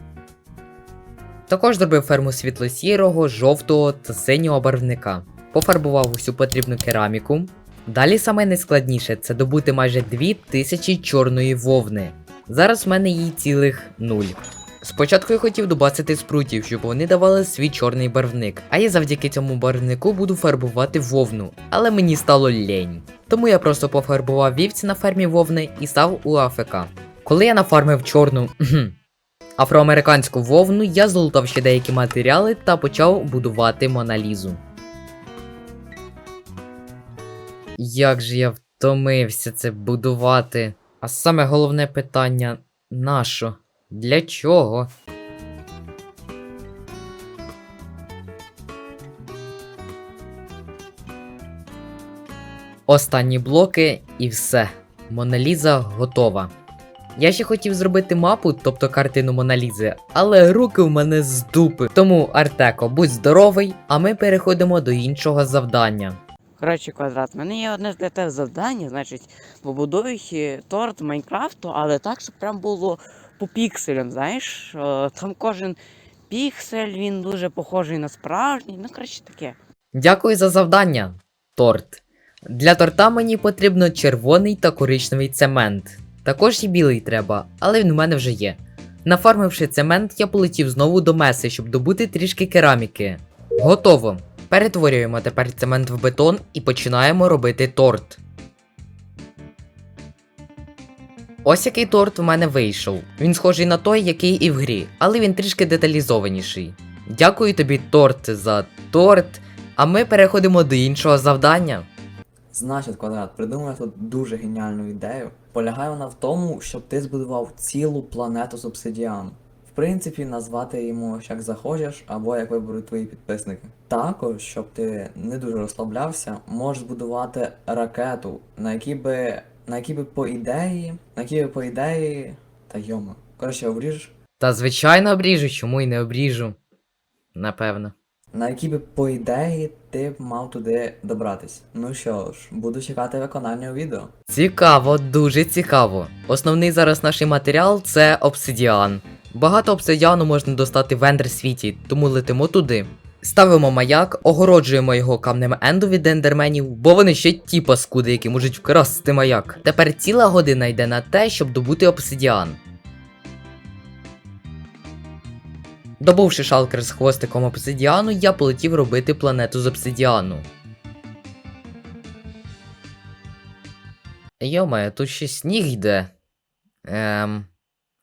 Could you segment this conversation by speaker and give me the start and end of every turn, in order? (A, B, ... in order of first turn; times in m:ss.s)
0:01.5-0:29.0 A
0:29.6-0:34.6 A
0:37.8-0:44.9 A
0:52.9-0:56.5 A
0:57.2-1:06.2 A
1:06.6-1:15.8 B
1:16.3-1:19.6 B
1:19.9-1:38.2 A
1:41.4-1:51.9 A
1:52.5-2:14.1 C
2:14.4-2:16.6 A
2:17.3-2:17.9 A
2:18.3-2:24.1 C
2:24.3-2:42.6 A
2:46.0-2:50.5 A
2:54.4-2:56.1 A
2:56.8-2:57.5 A